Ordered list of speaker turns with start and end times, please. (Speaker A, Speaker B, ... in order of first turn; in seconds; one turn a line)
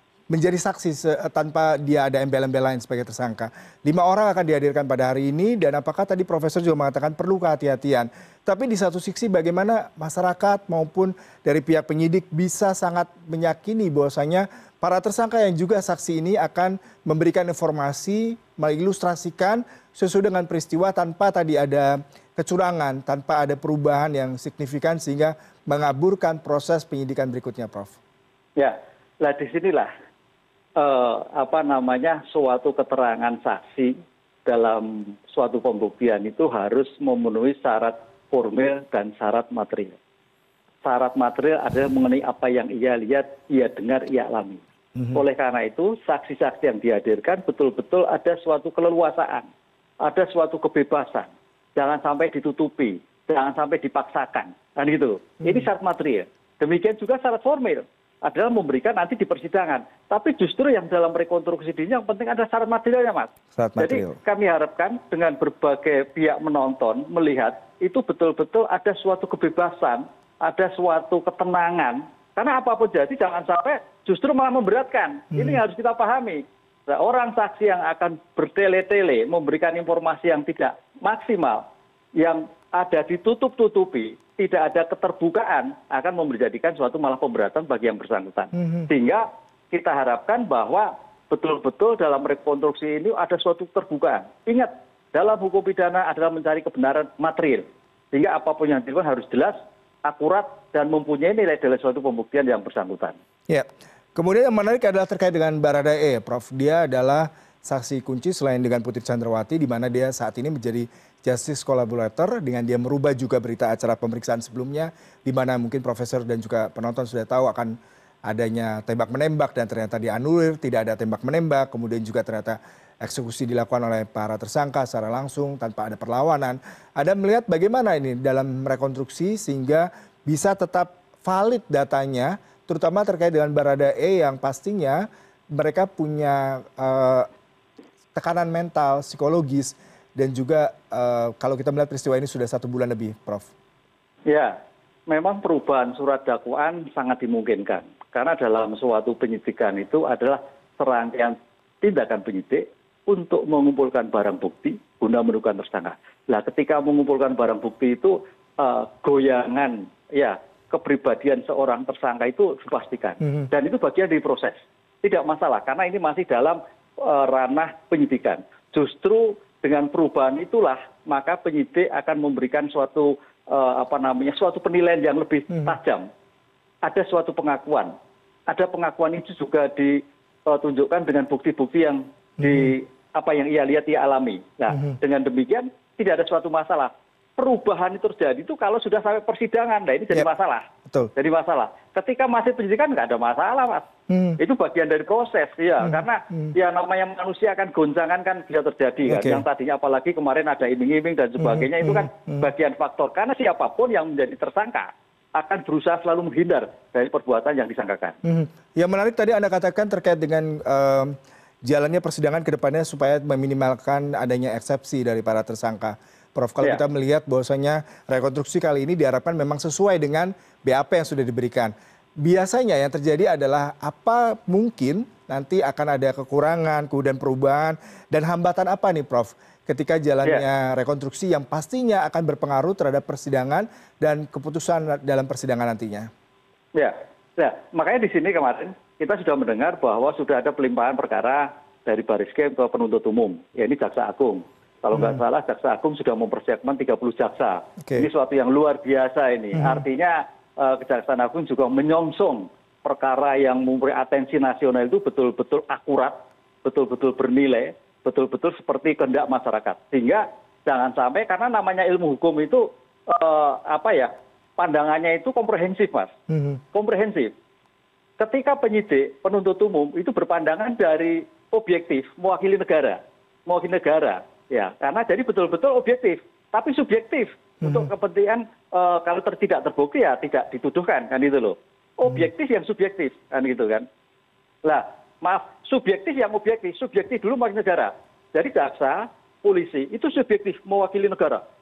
Speaker A: 0.3-28.0
Speaker B: 28.6-29.9
Speaker B: 30.8-40.0
Speaker B: 40.8-44.6
Speaker B: 45.1-49.5
Speaker B: 50.0-81.6
Speaker A: 63.5-64.2
Speaker B: 82.2-103.2
Speaker A: 88.6-88.9
Speaker A: 103.5-117.8
Speaker A: 118.3-137.3
Speaker A: 138.1-143.5
Speaker B: 144.3-144.6
Speaker B: 145.1-176.0
Speaker A: 163.2-163.5
Speaker B: 176.8-177.9
Speaker B: 178.5-190.6
Speaker A: 182.4-182.7
Speaker B: 191.2-193.8
Speaker A: 194.1-194.4
Speaker B: 194.4-208.2
Speaker A: 195.8-196.5
Speaker A: 199.1-199.4
Speaker A: 201.4-202.4
Speaker A: 208.2-236.1
Speaker B: 236.7-266.1
Speaker A: 249.5-249.8
Speaker A: 266.3-266.6
Speaker B: 266.7-267.3
Speaker B: 268.2-283.8
Speaker A: 277.6-277.9
Speaker B: 284.6-291.4